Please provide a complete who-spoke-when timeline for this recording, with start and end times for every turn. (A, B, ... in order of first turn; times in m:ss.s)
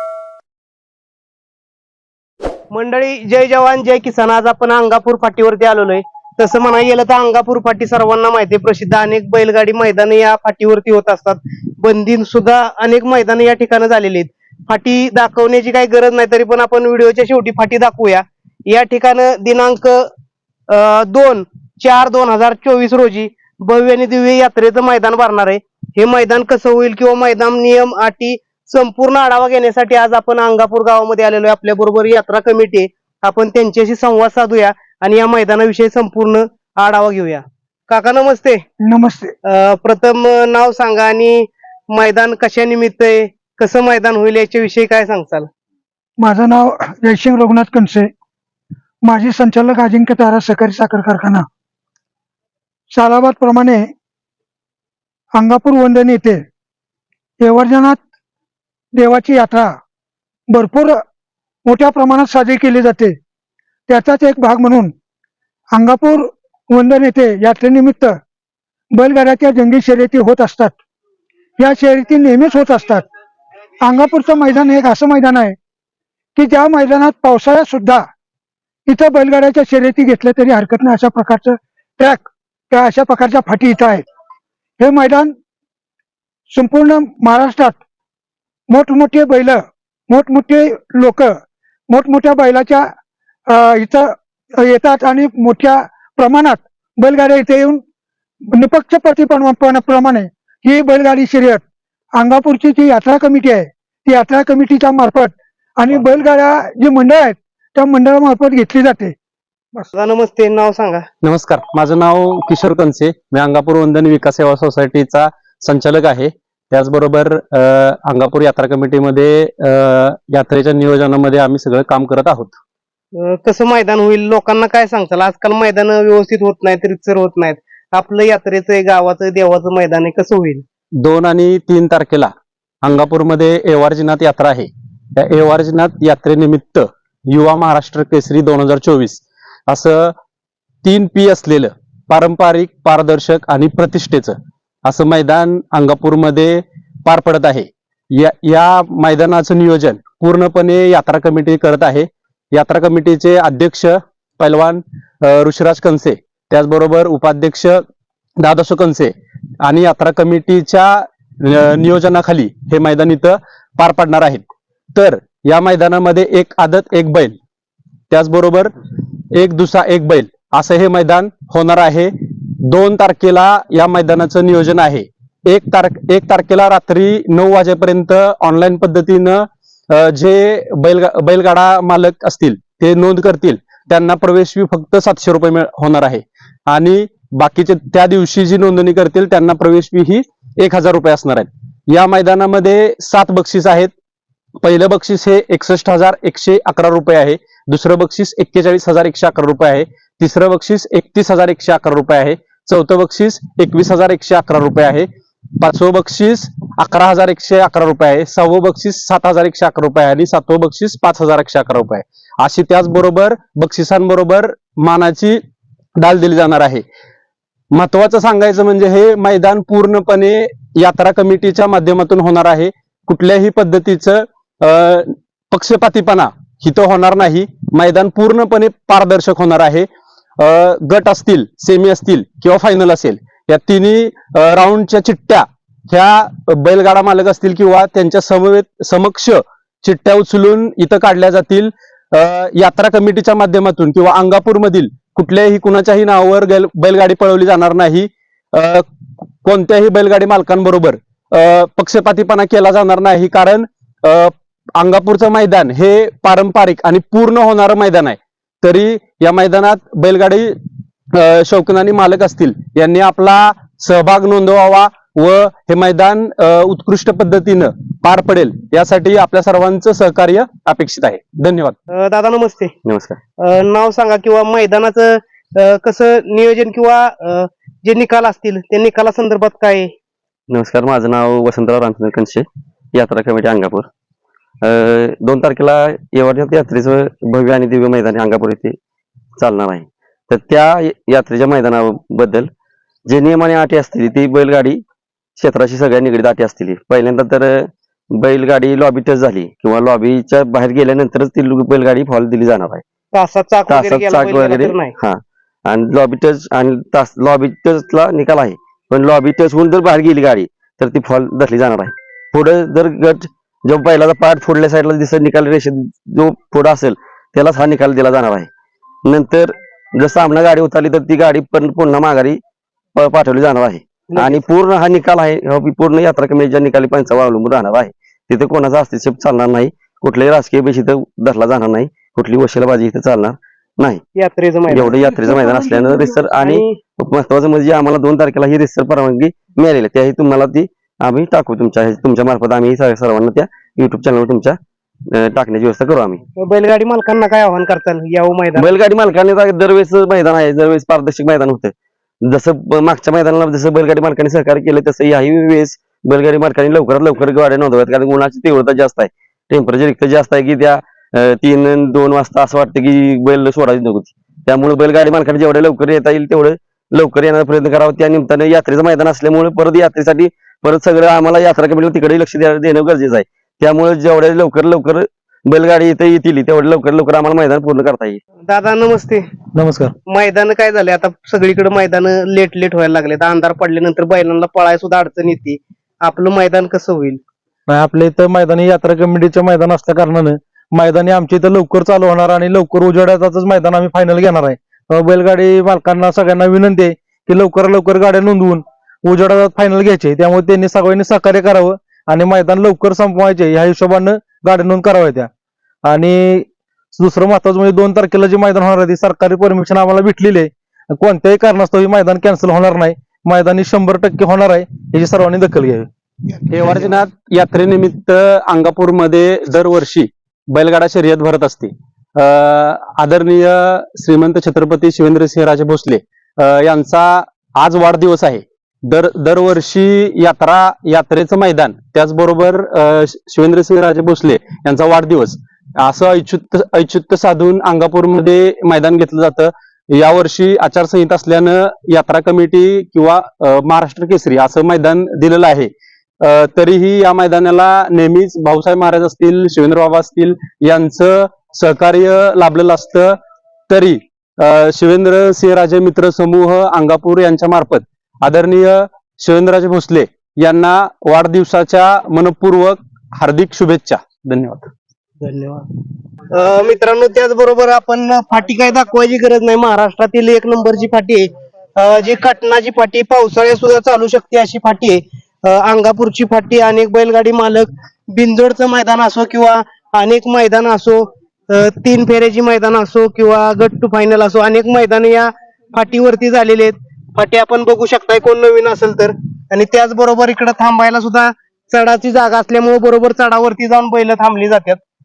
0:02.7-0:20.0 A
0:20.7-0:38.6 A
0:38.8-0:39.3 B
0:39.5-0:45.5 A
0:46.2-0:48.1 B
0:49.0-0:51.5 B
0:52.9-0:53.9 B
0:55.3-0:56.4 B
0:57.4-0:58.0 B
0:58.9-0:59.7 B
1:00.5-1:01.0 B
1:01.6-1:03.2 B
1:03.9-1:04.9 B
1:05.7-1:08.2 B
1:08.9-1:10.8 B
1:11.6-1:13.0 B
1:13.8-1:15.6 B
1:16.4-1:18.0 B
1:18.9-1:24.0 B
1:24.8-1:25.3 B
1:26.5-1:27.8 B
1:28.7-1:31.3 B
1:31.9-1:32.9 B
1:33.5-1:37.8 B
1:38.5-1:41.6 B
1:42.2-1:49.2 B
1:50.0-1:51.0 A
1:51.2-2:02.6 C
2:03.2-2:10.6 A
2:11.0-2:12.3 C
2:12.8-2:20.1 C
2:20.8-2:37.8 C
2:38.4-2:44.4 C
2:45.0-2:47.4 C
2:48.1-2:48.7 C
2:49.3-2:52.1 C
2:52.7-3:13.9 C
3:14.6-3:35.4 C
3:36.0-3:36.8 C
3:37.7-3:49.9 C
3:50.4-4:08.8 C
4:09.4-4:20.6 C
4:21.1-4:31.8 C
4:31.9-4:32.7 A
4:32.8-4:33.2 D
4:33.4-4:39.9 A
4:40.5-4:43.9 D
4:44.6-4:48.8 D
4:49.4-4:52.5 D
4:53.1-4:54.8 D
4:55.4-5:02.8 D
5:03.1-5:04.9 A
5:03.7-5:18.5 D
5:19.0-5:22.4 D
5:23.0-5:34.0 D
5:24.1-5:24.4 A
5:34.2-5:36.7 A
5:34.7-5:46.2 D
5:46.4-5:48.8 A
5:48.6-6:18.2 D
6:18.5-6:19.2 A
6:19.6-6:19.9 E
6:20.1-6:27.2 A
6:27.7-6:45.3 E
6:45.8-6:55.9 E
6:56.5-7:25.7 C
7:26.2-7:33.2 C
7:33.7-7:44.7 C
7:45.2-7:45.6 A
7:46.4-8:14.8 A